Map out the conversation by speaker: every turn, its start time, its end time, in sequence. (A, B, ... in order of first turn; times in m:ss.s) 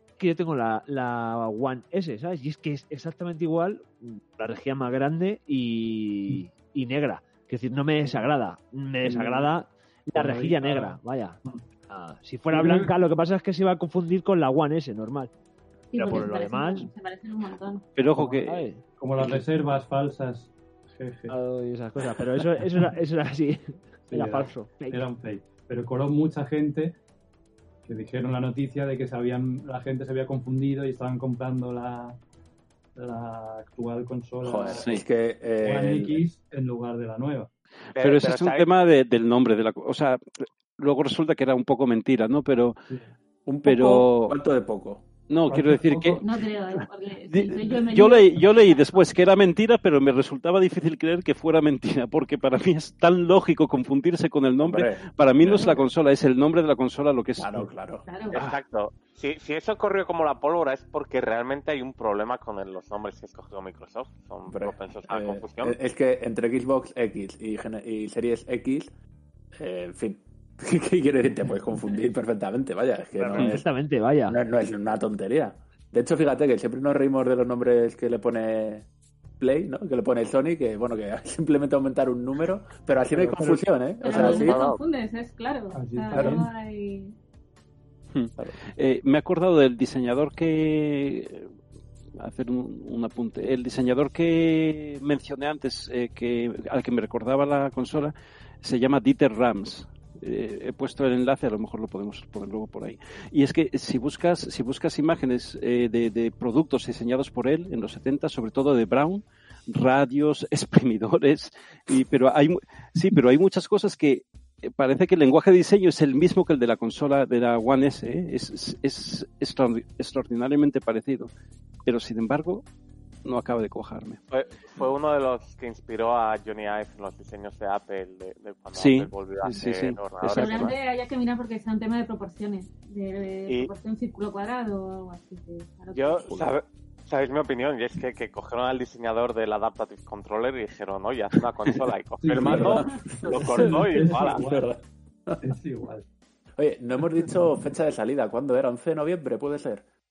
0:00.2-0:11.4 A
0:08.0-0:08.3 B
0:09.0-0:09.5 B
0:10.1-0:11.6 B
0:11.9-0:15.3 A
0:12.5-0:12.9 B
0:15.9-0:17.8 C
0:16.0-0:16.9 A
0:18.0-0:18.6 D
0:18.2-0:18.8 A
0:19.0-0:21.4 B
0:21.3-0:25.0 A
0:24.1-0:27.0 B
0:27.8-0:32.2 B
0:33.0-0:34.9 B
0:34.4-0:36.2 E
0:34.7-0:35.0 D
0:35.6-0:37.5 B
0:38.0-0:38.7 F
0:38.0-0:42.8 D
0:43.5-0:45.0 E
0:43.6-0:44.4 D
0:45.3-0:46.2 D
0:45.5-0:46.3 B
0:46.2-0:49.0 C
0:46.8-0:57.7 D
0:54.6-0:55.0 E
0:57.4-0:58.6 E
0:58.1-0:58.4 C
0:58.3-1:05.8 F
1:04.5-1:08.9 E
1:09.5-1:13.6 E
1:13.2-1:14.4 A
1:14.3-1:18.9 E
1:19.4-1:24.6 E
1:23.2-1:23.6 B
1:24.0-1:27.2 C
1:24.1-1:24.8 F
1:25.7-1:26.5 B
1:26.1-1:26.4 E
1:28.1-1:31.5 D
1:32.2-2:01.3 D
2:01.8-2:02.6 D
2:03.2-2:04.2 D
2:04.3-2:10.8 F
2:08.7-2:10.7 D
2:10.3-2:16.2 C
2:15.9-2:24.4 F
2:22.2-2:24.8 B
2:22.4-2:25.6 E
2:25.4-2:26.1 B
2:26.6-2:29.8 E